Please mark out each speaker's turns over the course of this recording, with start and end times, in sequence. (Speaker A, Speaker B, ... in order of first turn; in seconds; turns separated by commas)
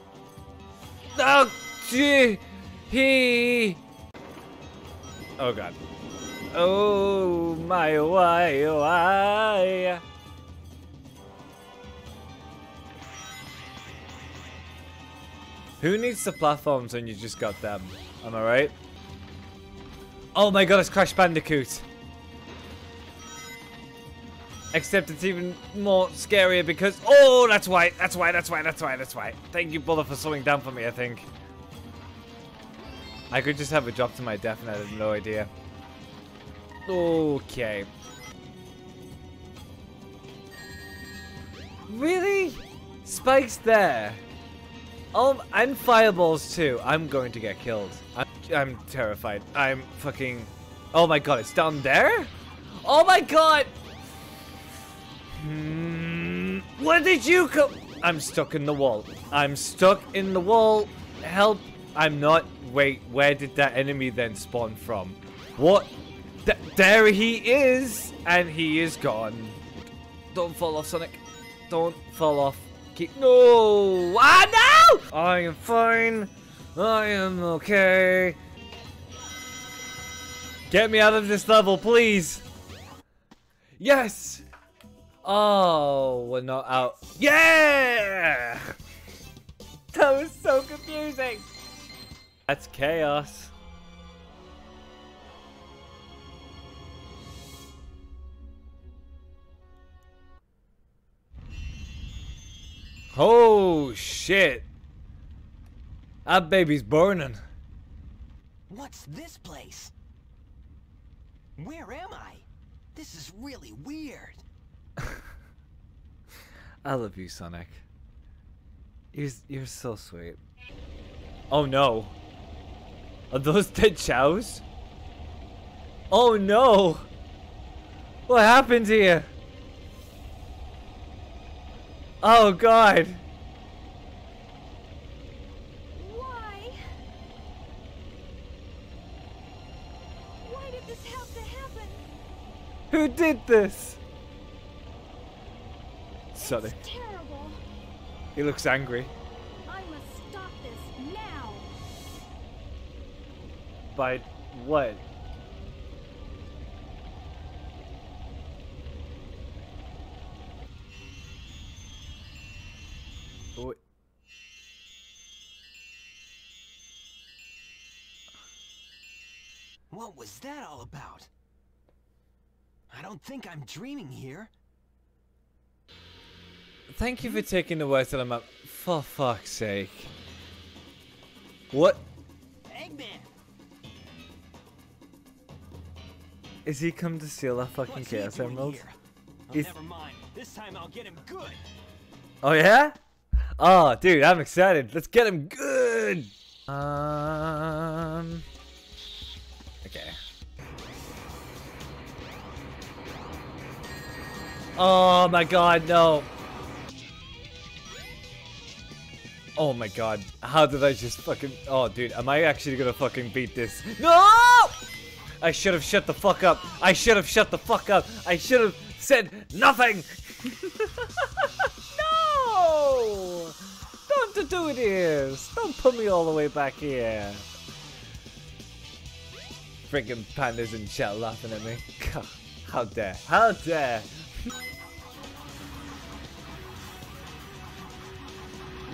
Speaker A: 1.1-3.8, Speaker A: 5.4-5.8, Speaker A: 6.5-10.0, Speaker A: 15.8-18.8, Speaker A: 20.3-21.9, Speaker A: 24.7-31.3, Speaker A: 33.3-35.5, Speaker A: 36.9-37.9, Speaker A: 41.9-44.2, Speaker A: 45.1-53.7, Speaker A: 55.3-65.9, Speaker A: 66.4-69.6, Speaker A: 70.3-78.4, Speaker A: 80.7-82.4, Speaker A: 83.8-84.4, Speaker A: 85.2-88.7, Speaker A: 89.9-91.5, Speaker A: 92.5-93.5, Speaker A: 103.1-104.7, Speaker A: 106.2-107.4, Speaker B: 108.7-109.9, Speaker B: 111.6-114.4, Speaker A: 116.8-117.8, Speaker A: 119.1-120.4, Speaker A: 121.5-122.1, Speaker A: 123.3-124.6, Speaker A: 126.1-127.1, Speaker A: 128.3-129.3, Speaker A: 132.2-133.2, Speaker C: 135.9-136.8, Speaker C: 140.4-142.0, Speaker A: 142.9-144.0, Speaker A: 146.3-146.8, Speaker C: 146.4-147.6, Speaker A: 148.3-149.1, Speaker C: 149.7-151.7, Speaker A: 153.9-155.0, Speaker B: 169.9-171.3, Speaker B: 172.9-174.5, Speaker A: 176.9-180.1, Speaker A: 181.7-182.0, Speaker B: 182.7-183.3, Speaker A: 186.7-188.9, Speaker B: 187.8-191.6, Speaker A: 192.4-193.0, Speaker A: 193.6-198.4, Speaker A: 199.8-200.2, Speaker A: 204.8-206.3, Speaker A: 209.6-214.8, Speaker A: 215.4-223.6, Speaker A: 224.1-227.5, Speaker A: 229.9-234.3